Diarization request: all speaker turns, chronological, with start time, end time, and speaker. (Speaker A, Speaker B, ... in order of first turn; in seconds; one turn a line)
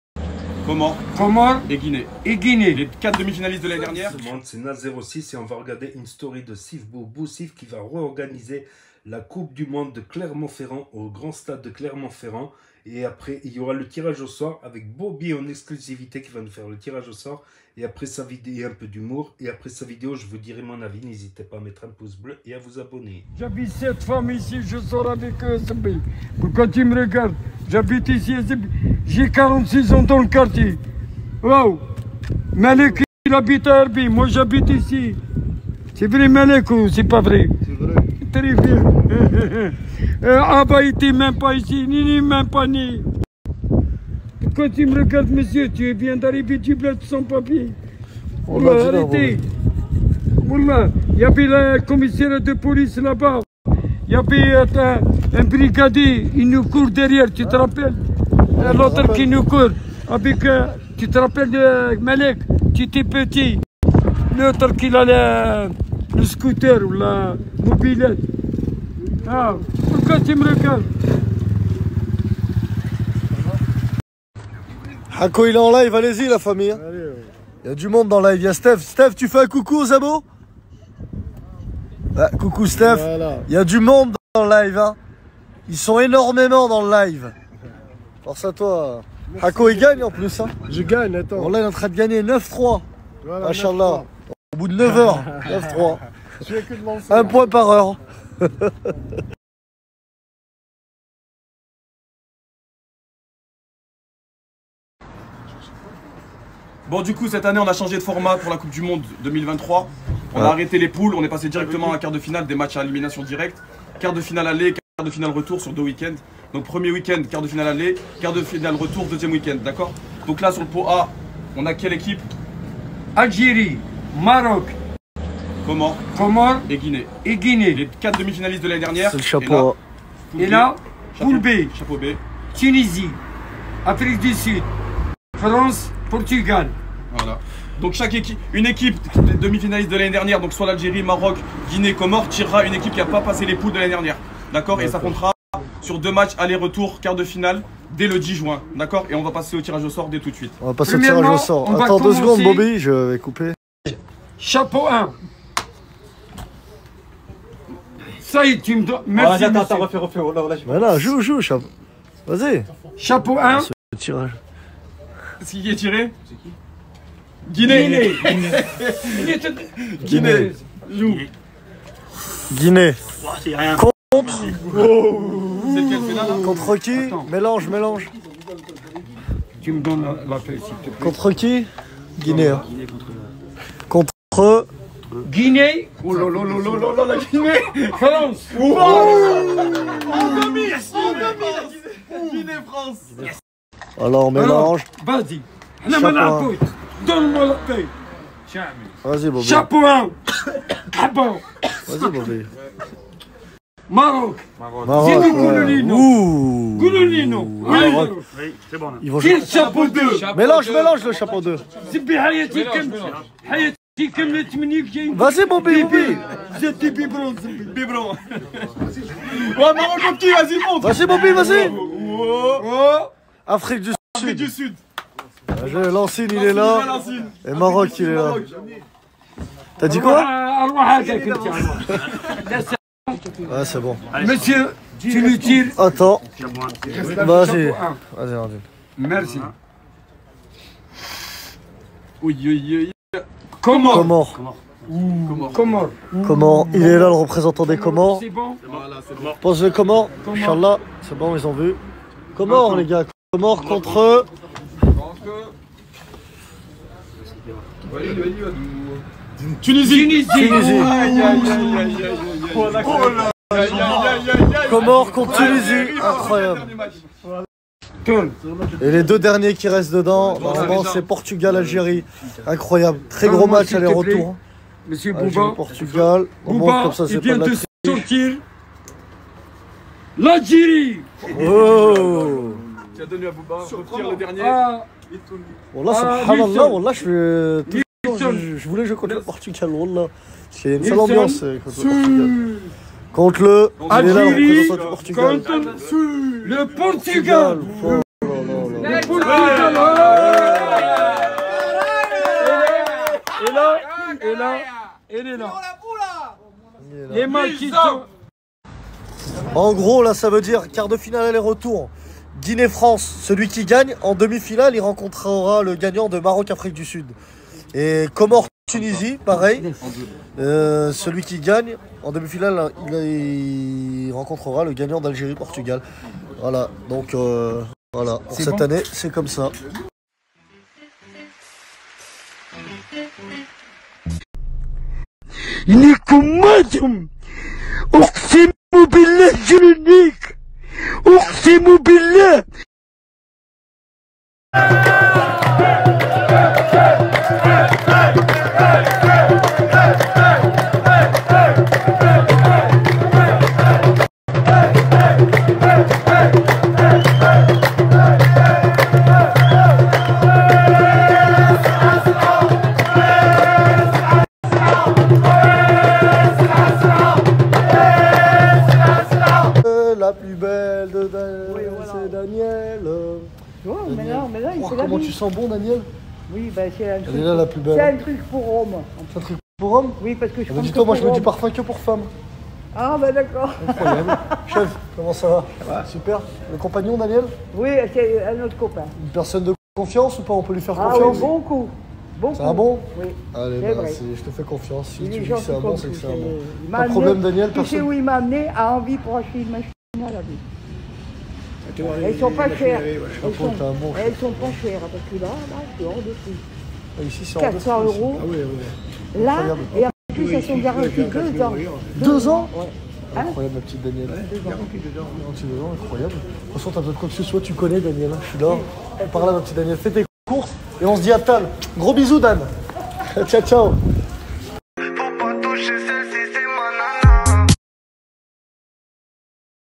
Speaker A: 0.6-1.0
Speaker B: 1.1-1.7
Speaker A: 1.6-2.1
Speaker B: 2.2-2.8
Speaker A: 2.7-4.2
Speaker C: 4.0-23.2
Speaker B: 23.3-30.8
Speaker B: 31.4-31.8
Speaker B: 32.5-35.2
Speaker B: 35.9-37.5
Speaker B: 38.2-43.1
Speaker B: 44.4-47.8
Speaker D: 48.5-49.4
Speaker B: 48.5-49.5
Speaker B: 50.4-53.5
Speaker B: 54.0-58.0
Speaker D: 58.5-59.4
Speaker B: 58.6-63.6
Speaker B: 64.3-68.2
Speaker B: 69.2-70.9
Speaker D: 75.1-76.8
Speaker E: 76.9-77.3
Speaker D: 77.6-80.2
Speaker D: 82.1-85.0
Speaker E: 82.9-83.4
Speaker D: 85.7-87.3
Speaker D: 88.2-90.5
Speaker E: 90.7-91.5
Speaker D: 91.3-92.8
Speaker E: 93.2-94.0
Speaker D: 93.4-96.0
Speaker E: 96.4-97.3
Speaker D: 97.0-98.7
Speaker A: 106.9-122.2
Speaker B: 123.1-124.8
Speaker A: 125.6-126.0
Speaker B: 126.1-126.7
Speaker A: 126.7-127.1
Speaker B: 127.2-127.8
Speaker A: 127.7-129.7
Speaker D: 129.0-129.8
Speaker A: 130.3-132.2
Speaker B: 130.4-131.7
Speaker B: 132.5-133.2
Speaker B: 133.8-134.7
Speaker B: 135.3-136.7
Speaker A: 137.1-150.6
Speaker D: 144.8-145.2
Speaker D: 150.6-153.6
Speaker B: 150.8-152.7
Speaker B: 154.4-155.2
Speaker B: 158.2-159.9
Speaker A: 159.2-161.1
Speaker D: 160.6-161.7
Speaker D: 162.3-162.7
Speaker B: 163.0-163.7
Speaker D: 163.4-164.4
Speaker A: 165.4-166.2
Speaker A: 167.4-169.3
Speaker B: 167.6-168.5
Speaker B: 169.1-170.6
Speaker A: 169.9-171.3
Speaker D: 170.1-170.5
Speaker D: 172.5-174.6
Speaker E: 173.3-173.6
Speaker A: 174.7-176.6
Speaker E: 175.2-175.5
Speaker D: 176.3-178.1
Speaker B: 176.9-177.3
Speaker B: 179.6-181.2
Speaker D: 181.0-182.7
Speaker A: 182.3-183.1
Speaker D: 183.9-184.7
Speaker B: 185.2-185.9
Speaker A: 186.0-187.9
Speaker B: 187.5-188.6
Speaker A: 188.5-193.3
Speaker D: 194.0-194.9
Speaker B: 194.3-197.9
Speaker D: 195.9-196.5
Speaker D: 199.0-199.7
Speaker B: 199.4-200.1
Speaker B: 200.7-202.2
Speaker D: 201.8-202.5
Speaker B: 203.9-206.1
Speaker D: 204.8-208.2
Speaker B: 206.7-208.3
Speaker D: 209.0-209.5
Speaker B: 209.2-210.3
Speaker A: 209.5-210.9
Speaker D: 210.2-211.6
Speaker B: 211.8-217.7
Speaker D: 215.1-216.2
Speaker A: 217.5-222.7
Speaker D: 220.8-221.8
Speaker B: 222.6-223.1
Speaker D: 223.4-224.5
Speaker A: 224.1-224.8
Speaker D: 225.5-228.4
Speaker A: 226.3-228.5
Speaker D: 229.8-230.3
Speaker B: 229.8-233.2
Speaker D: 233.4-234.0
Speaker B: 234.1-235.8
Speaker D: 235.7-236.2
Speaker E: 236.4-237.0
Speaker B: 236.9-238.0
Speaker D: 237.0-238.6
Speaker B: 239.0-239.5
Speaker A: 242.2-244.1
Speaker B: 243.6-244.1
Speaker D: 243.9-244.4
Speaker B: 244.9-248.6
Speaker A: 245.2-245.7
Speaker D: 246.2-248.2
Speaker A: 248.6-249.4
Speaker D: 249.4-251.8
Speaker B: 250.2-250.6
Speaker D: 252.3-254.3
Speaker A: 252.4-252.8
Speaker A: 254.9-255.5
Speaker A: 257.9-259.0
Speaker A: 259.6-267.1
Speaker B: 259.8-260.9
Speaker D: 260.3-261.0
Speaker D: 264.6-266.7
Speaker B: 268.0-268.4
Speaker D: 268.8-274.4
Speaker A: 270.3-271.0
Speaker B: 273.2-274.3
Speaker B: 274.9-275.6
Speaker D: 275.1-278.1
Speaker B: 276.4-278.4
Speaker B: 280.2-281.2
Speaker A: 281.2-285.5
Speaker D: 281.3-282.6
Speaker B: 284.3-284.9
Speaker D: 285.7-292.4
Speaker B: 285.9-286.8
Speaker B: 287.7-288.5
Speaker B: 290.8-291.4
Speaker D: 293.1-295.5
Speaker A: 293.8-294.9
Speaker B: 293.9-298.0
Speaker A: 295.8-296.1
Speaker D: 296.8-299.5
Speaker B: 298.8-301.3
Speaker A: 299.1-302.3
Speaker B: 302.2-305.6
Speaker A: 305.8-306.2
Speaker D: 306.8-307.3
Speaker B: 307.1-308.1
Speaker A: 307.3-308.0
Speaker D: 309.5-317.1
Speaker D: 317.7-319.8
Speaker D: 320.4-325.8
Speaker D: 326.4-329.5
Speaker A: 328.3-328.6
Speaker B: 335.6-337.1
Speaker B: 337.9-342.4
Speaker D: 369.5-373.3
Speaker F: 371.5-372.1
Speaker F: 373.6-375.2
Speaker D: 373.9-375.9
Speaker F: 376.3-379.1
Speaker D: 377.0-377.9
Speaker D: 379.1-382.1
Speaker F: 380.0-381.3
Speaker F: 382.7-384.5
Speaker D: 383.6-387.3
Speaker F: 387.5-388.9
Speaker D: 389.0-391.3
Speaker F: 390.7-394.0
Speaker D: 392.3-397.9
Speaker F: 395.0-400.4
Speaker E: 401.8-403.1
Speaker F: 402.0-406.4
Speaker D: 403.2-404.6
Speaker D: 406.9-408.2
Speaker F: 407.4-408.3
Speaker E: 408.2-408.7
Speaker F: 409.1-413.4
Speaker D: 409.2-409.8
Speaker E: 410.2-411.9
Speaker D: 411.9-412.5
Speaker D: 413.1-414.3
Speaker F: 414.2-414.7
Speaker D: 415.1-422.5
Speaker D: 423.1-423.8